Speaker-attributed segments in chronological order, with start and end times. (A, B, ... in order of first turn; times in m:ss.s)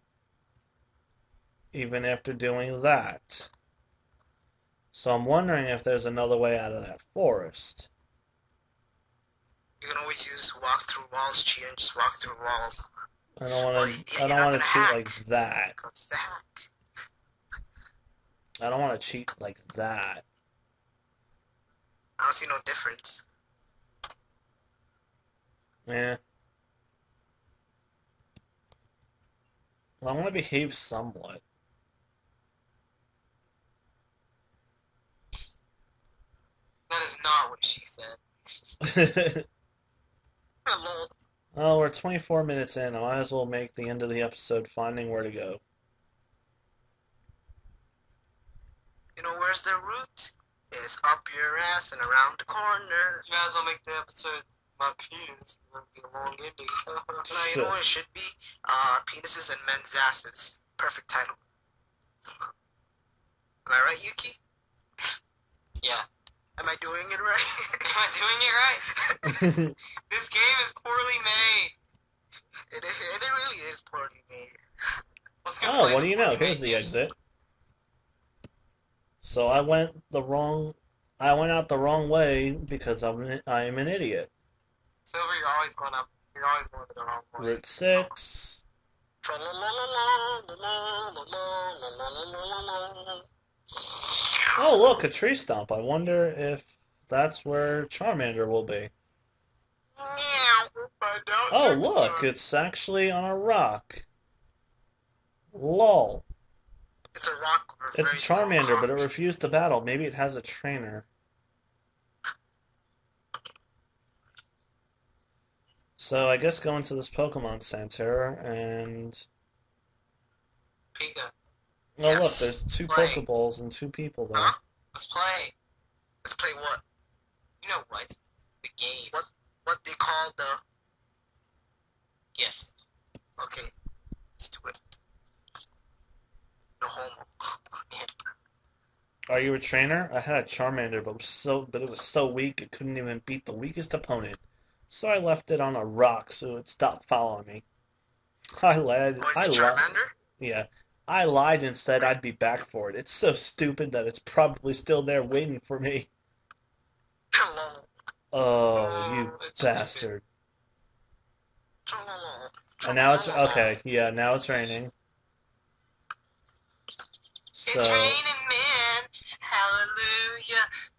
0:01.7-0:03.5 A
0:04.9-0:07.9 A
0:09.8-0:12.9 B
0:13.4-0:15.8 A
0:13.7-0:15.2 B
0:15.7-0:16.7 B
0:18.6-0:20.2 A
0:22.2-0:23.2 B
0:25.9-0:26.2 A
0:30.0-0:31.4 A
0:36.9-0:38.2 C
0:38.8-0:39.5 A
0:40.6-0:41.1 B
0:41.6-0:45.6 A
0:49.2-0:53.3 B
0:53.3-0:57.2 C
0:57.3-0:57.8 A
0:57.3-1:01.4 B
1:03.7-1:04.4 B
1:05.8-1:06.1 C
1:06.6-1:07.8 B
1:07.8-1:08.9 C
1:08.9-1:09.5 B
1:09.3-1:09.8 A
1:10.1-1:11.8 C
1:12.7-1:14.6 B
1:15.4-1:17.0 C
1:15.6-1:17.2 A
1:19.2-1:24.3 A
1:25.1-1:28.1 C
1:27.4-1:28.6 A
1:29.2-1:33.3 B
1:34.6-1:38.9 A
1:40.0-1:42.3 B
1:41.5-1:44.0 A
1:45.5-1:46.2 A
1:47.1-1:49.1 B
1:47.9-1:51.1 A
1:56.0-1:59.3 A
2:01.0-2:01.3 C
2:02.0-2:04.5 A
2:02.0-2:02.5 B
2:02.9-2:03.2 C
2:04.3-2:04.6 B
2:04.9-2:05.5 C
2:06.2-2:06.8 B
2:07.6-2:09.2 C
2:09.1-2:10.6 B
2:12.4-2:12.7 C
2:13.4-2:13.7 B
2:14.4-2:14.8 B
2:16.8-2:17.6 B
2:19.3-2:27.6 A
2:28.6-2:36.1 A
2:29.2-2:30.1 B
2:37.3-2:37.9 B
2:38.3-2:40.2 A
2:38.7-2:40.1 C
2:41.9-2:43.7 B
2:42.8-2:44.9 A
2:47.5-2:48.2 A
2:47.7-2:50.7 C